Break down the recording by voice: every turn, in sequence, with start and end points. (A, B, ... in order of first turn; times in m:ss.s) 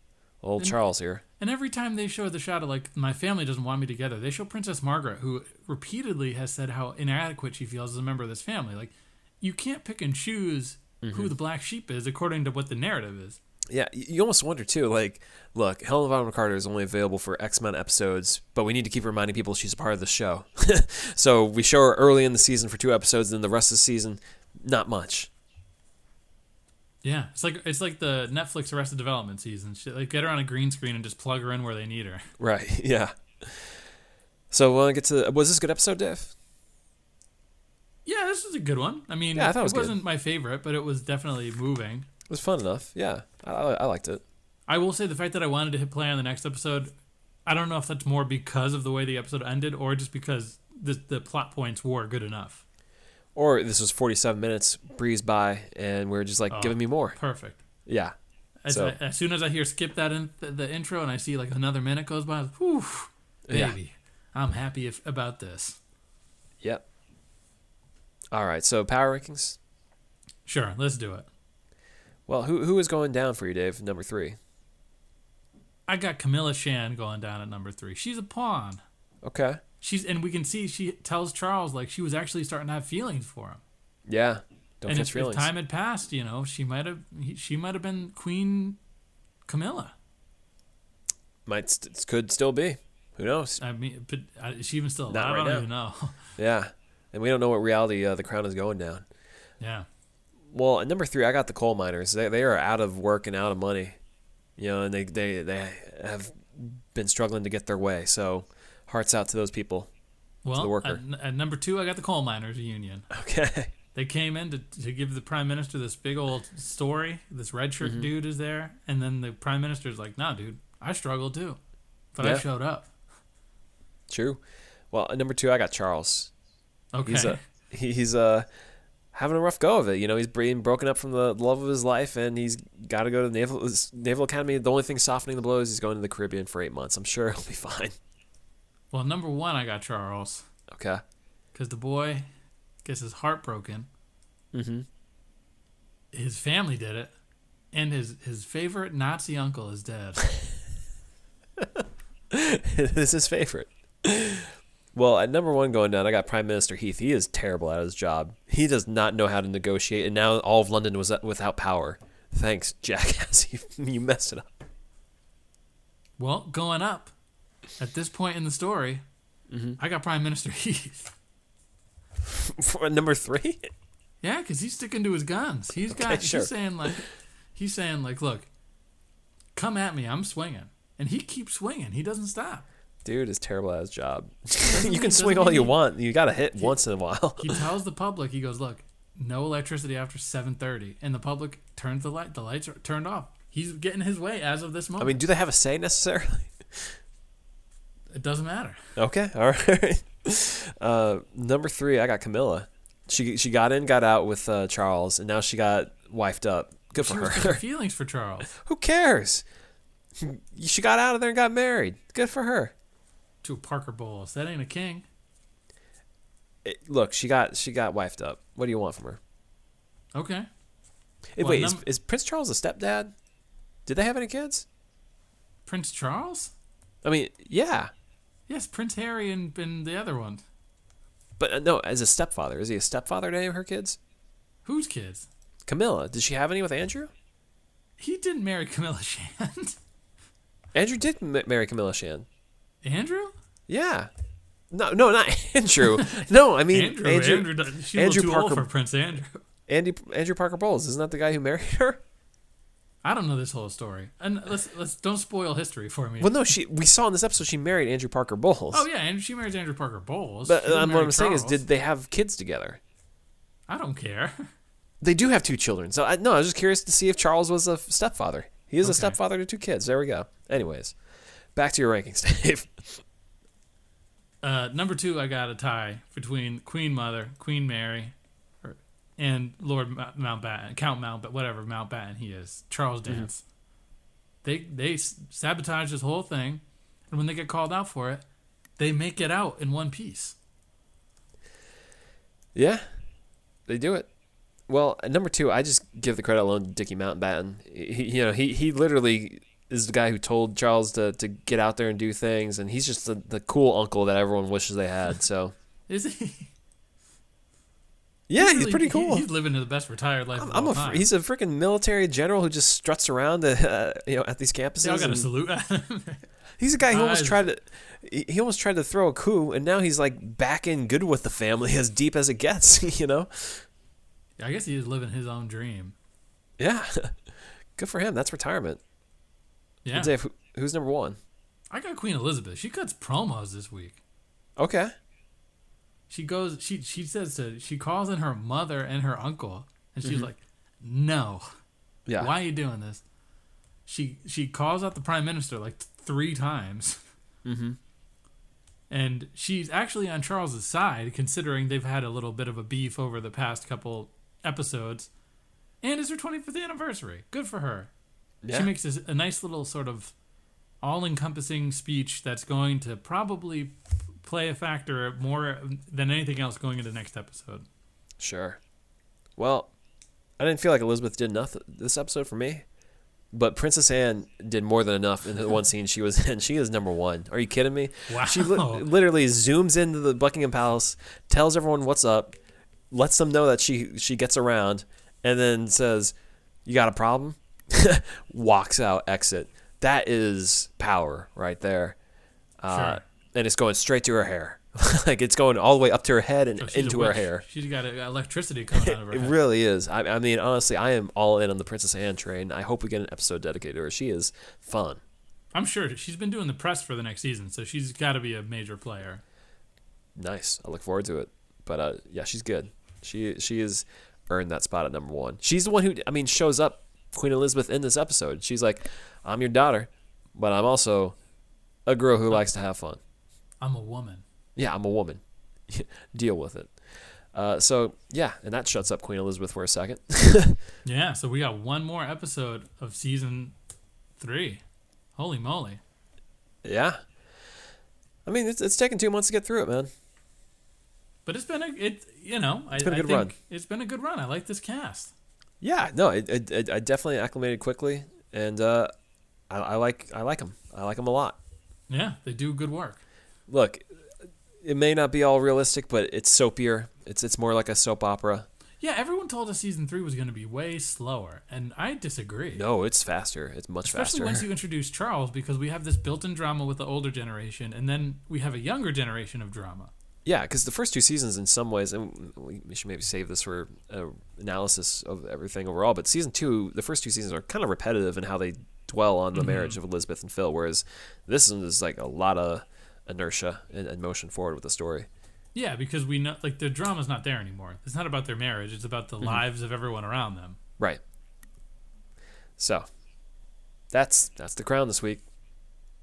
0:00.4-0:01.2 A
0:01.4-0:13.4 B
0:11.0-0:11.3 A
0:13.7-0:25.3 A
0:27.0-0:32.3 B
0:32.4-0:33.8 A
0:34.5-0:36.4 A
0:38.1-0:42.1 B
0:39.3-0:40.0 A
0:42.3-0:44.2 A
0:44.7-0:46.9 B
0:47.5-0:52.6 B
0:53.4-0:57.2 A
0:56.5-0:57.6 B
0:57.9-0:58.2 A
0:58.6-1:05.8 B
0:58.7-0:59.0 A
1:03.5-1:03.8 A
1:08.3-1:09.6 A
1:10.4-1:11.3 B
1:12.3-1:14.4 A
1:15.9-1:18.8 B
1:19.2-1:19.6 A
1:19.8-1:23.6 B
1:24.1-1:25.5 A
1:24.9-1:28.8 B
1:29.5-1:29.9 B
1:31.5-1:33.6 A
1:33.6-1:36.2 B
1:35.1-1:35.7 A
1:36.4-1:39.0 A
1:39.6-1:39.9 B
1:40.5-1:44.0 A
1:44.6-1:49.9 A
1:50.4-1:53.1 B
1:50.5-1:51.0 A
1:53.1-1:53.7 A
1:54.0-2:01.6 B
1:57.8-1:58.1 A
2:02.1-2:02.9 B
2:04.1-2:06.3 A
2:06.9-2:07.4 B
2:07.1-2:08.5 A
2:09.1-2:18.0 A
2:18.9-2:20.5 B
2:20.7-2:21.0 A
2:21.5-2:22.3 B
2:22.8-2:23.9 B
2:24.5-2:24.9 A
2:26.1-2:27.1 B
2:27.7-2:30.3 B
2:31.6-2:44.5 A
2:46.2-2:47.1 B
2:47.8-2:49.0 B
2:49.5-2:49.8 A
2:49.8-2:51.1 B
2:52.3-2:53.7 A
2:54.2-2:58.5 B
2:55.9-2:57.0 A
2:59.6-3:02.7 B
3:03.0-3:07.6 A
3:04.6-3:05.8 B
3:07.4-3:15.2 B
3:15.0-3:17.0 A
3:18.1-3:18.8 B
3:19.0-3:27.6 A
3:27.0-3:28.5 B
3:28.5-3:29.4 A
3:30.2-3:32.7 A
3:33.4-3:35.0 B
3:36.6-3:39.2 A
3:40.2-3:40.5 B
3:41.4-3:43.1 A
3:41.4-3:41.8 B
3:43.9-3:44.7 A
3:45.7-3:46.5 B
3:47.0-3:47.9 A
3:48.5-3:50.4 B
3:51.4-3:54.0 A
3:54.6-3:55.3 B
3:55.7-3:57.1 A
3:58.0-3:59.8 B
4:00.7-4:02.3 A
4:02.8-4:03.3 B
4:03.7-4:04.1 A
4:04.7-4:08.7 A
4:06.7-4:09.4 B
4:09.7-4:12.0 A
4:13.0-4:16.3 B
4:16.2-4:18.9 A
4:18.7-4:21.6 B
4:20.5-4:22.8 A
4:23.7-4:24.5 B
4:25.0-4:31.0 A
4:28.8-4:29.2 B
4:31.6-4:33.0 A
4:34.4-4:43.4 B
4:44.4-4:48.2 B
4:48.8-4:50.4 B
4:52.6-4:52.9 A
4:53.7-4:54.1 A
4:54.7-5:05.5 A
5:05.9-5:06.5 B
5:08.3-5:09.3 A
5:08.4-5:11.1 B
5:10.4-5:15.3 A
5:14.8-5:16.3 B
5:16.6-5:23.7 A
5:16.8-5:17.4 B
5:24.4-5:26.0 B
5:26.6-5:27.2 A
5:27.8-5:28.8 A
5:29.8-5:30.2 B
5:29.9-5:31.2 A
5:31.7-5:34.0 B
5:34.6-5:34.9 A
5:36.1-5:41.5 B
5:40.0-5:40.3 A
5:42.1-5:42.3 A
5:42.2-5:43.0 B
5:43.9-5:47.0 B
5:47.4-5:47.8 A
5:48.9-5:55.1 B
5:55.8-5:57.9 B
5:58.4-5:58.7 A
5:58.5-6:00.1 B
6:00.8-6:07.6 B
6:08.2-6:08.6 A
6:09.4-6:09.7 A
6:10.4-6:12.6 A
6:13.3-6:22.3 A
6:18.1-6:18.9 B
6:22.9-6:26.1 A
6:26.6-6:32.0 A
6:32.6-6:37.4 A
6:32.7-6:33.0 B
6:36.6-6:39.4 B
6:38.7-6:45.0 A
6:45.5-6:49.2 B
6:50.2-7:01.2 A
7:01.9-7:03.0 A
7:03.6-7:04.2 B
7:04.6-7:10.6 A
7:10.8-7:13.5 B
7:14.2-7:14.6 B
7:15.2-7:15.8 B
7:16.6-7:17.0 A
7:18.3-7:19.9 A
7:21.3-7:25.1 B
7:22.8-7:23.3 A
7:25.6-7:28.9 A
7:29.5-7:31.4 A
7:31.9-7:33.0 B
7:33.5-7:33.9 A
7:34.6-7:38.5 A
7:38.8-7:42.6 B
7:42.6-7:44.5 A
7:43.8-7:49.9 B
7:50.2-8:05.1 A
7:59.3-7:59.8 B
8:05.6-8:10.6 B
8:12.6-8:12.8 A
8:13.9-8:15.2 A